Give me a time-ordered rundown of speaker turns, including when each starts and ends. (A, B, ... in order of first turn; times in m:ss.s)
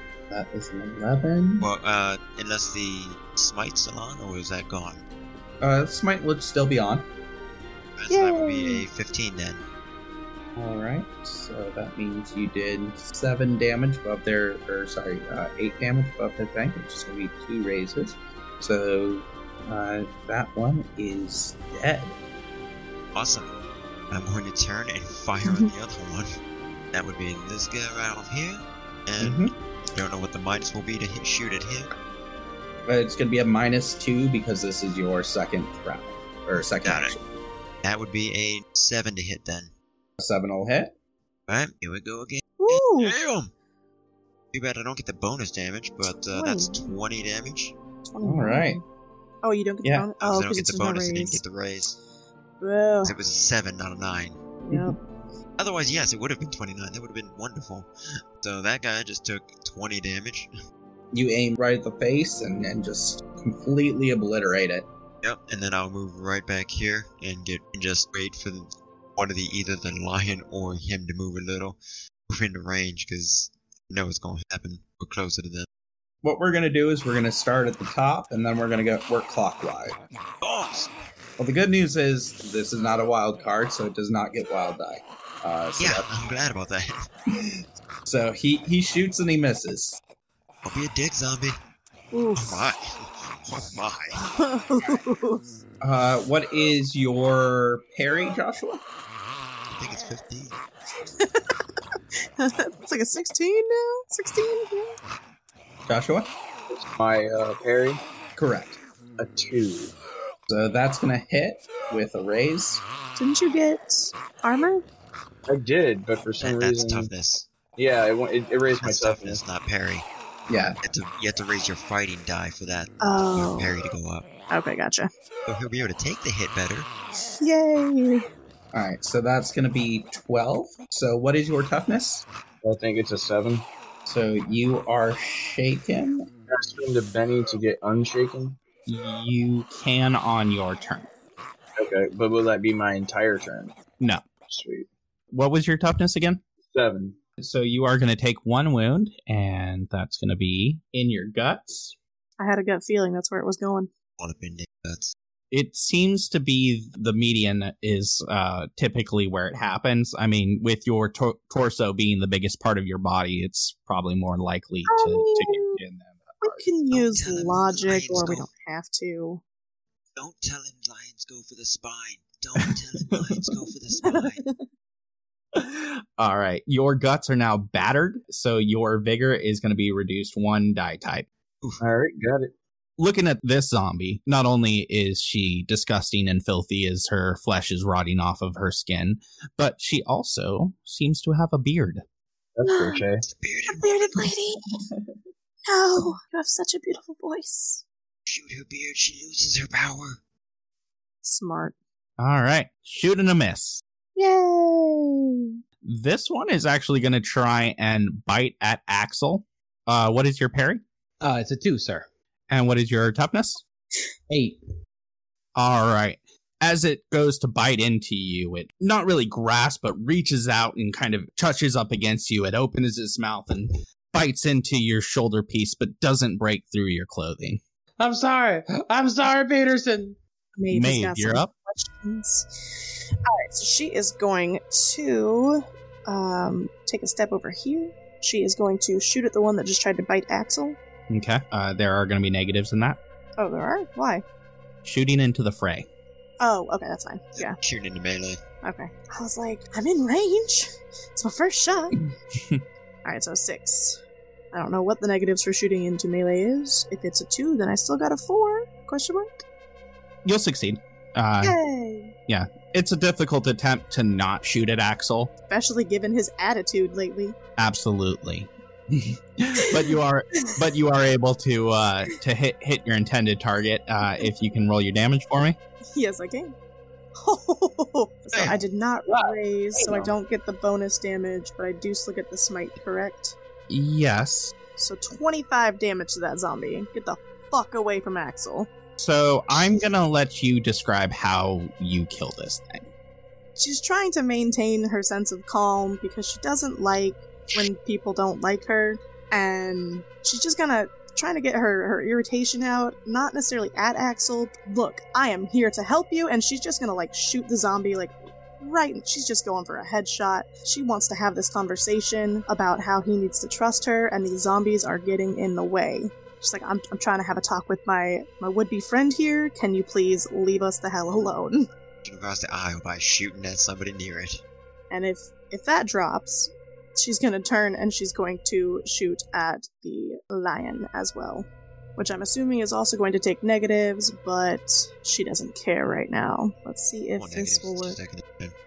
0:00.3-0:01.7 A
0:01.6-0:05.0 B
0:05.6-0:07.1 A
0:08.0-0:09.6 B
0:08.1-0:08.8 C
0:10.6-0:22.2 A
0:23.1-0:23.5 B
0:24.1-0:26.4 B
0:25.4-0:25.7 C
0:26.9-0:31.9 B
0:29.2-0:29.5 A
0:32.9-0:37.2 A
0:36.8-0:37.2 B
0:37.8-0:39.7 B
0:40.2-0:40.9 A
0:41.5-0:43.5 B
0:42.6-0:43.2 C
0:44.5-0:47.8 B
0:46.3-0:46.9 C
0:48.1-0:48.8 C
0:48.2-0:48.8 A
0:49.4-0:51.4 C
0:50.2-0:52.0 B
0:52.6-0:53.2 C
0:53.0-0:54.4 B
0:54.6-0:55.0 C
0:54.7-0:55.0 A
0:55.6-0:57.9 B
0:58.4-1:00.5 B
1:01.1-1:04.9 A
1:05.2-1:15.7 B
1:16.2-1:20.0 A
1:20.4-1:20.9 B
1:21.4-1:26.1 A
1:25.8-1:27.1 B
1:28.0-1:30.0 A
1:30.6-1:31.6 B
1:32.1-1:32.6 C
1:32.4-1:34.2 B
1:34.2-1:35.4 C
1:35.8-1:38.8 A
1:39.7-1:40.6 B
1:41.2-1:41.6 C
1:42.4-1:45.0 C
1:45.9-1:46.3 A
1:46.7-1:48.0 D
1:48.4-1:48.8 A
1:49.2-1:49.9 D
1:50.5-1:52.8 A
1:53.2-1:54.8 C
1:55.5-1:57.1 D
1:56.4-1:57.5 B
1:57.8-1:59.4 D
1:58.8-2:00.1 B
2:00.5-2:00.8 A
2:00.8-2:04.3 B
2:03.0-2:03.7 C
2:04.5-2:05.1 C
2:05.5-2:06.9 B
2:07.4-2:08.2 C
2:08.7-2:12.2 A
2:12.6-2:13.7 D
2:14.1-2:16.3 A
2:16.5-2:18.6 D
2:18.9-2:21.1 A
2:21.8-2:23.8 D
2:24.0-2:24.2 A
2:24.5-2:24.9 D
2:25.3-2:26.4 A
2:26.6-2:27.2 D
2:27.4-2:32.0 A
2:32.4-2:33.9 C
2:34.2-2:35.1 B
2:35.5-2:46.7 A
2:44.9-2:45.8 C
2:46.4-2:49.4 C
2:46.9-2:48.5 B
2:50.2-2:54.4 B
2:54.0-2:54.6 C
2:55.5-3:01.3 A
3:01.8-3:02.5 D
3:03.0-3:12.0 A
3:12.6-3:13.2 D
3:12.7-3:13.0 C
3:13.3-3:14.3 B
3:13.7-3:14.6 C
3:15.7-3:17.8 C
3:18.3-3:20.2 B
3:21.2-3:21.8 C
3:22.2-3:23.8 A
3:24.2-3:25.5 C
3:25.8-3:30.8 A
3:31.2-3:32.1 E
3:32.5-3:33.6 A
3:34.3-3:34.6 E
3:35.6-3:47.6 A
3:48.0-3:50.2 E
3:50.6-4:00.8 C
3:50.7-3:51.5 A
4:01.1-4:03.0 A
4:03.4-4:04.2 C
4:04.8-4:05.9 A
4:06.4-4:07.6 C
4:07.4-4:08.4 B
4:08.6-4:12.0 C
4:12.3-4:12.6 A
4:13.0-4:14.0 C
4:14.5-4:19.4 C
4:20.2-4:21.6 A
4:21.4-4:22.1 C
4:22.3-4:25.3 A
4:25.5-4:27.4 C
4:27.6-4:35.6 A
4:36.0-4:36.5 C
4:37.2-4:43.4 C
4:38.3-4:38.6 B
4:43.7-4:44.6 A
4:44.8-4:48.7 C
4:49.0-4:52.9 A
4:53.6-5:21.7 C
5:22.0-5:24.4 B
5:24.9-5:38.0 C
5:37.2-5:38.6 B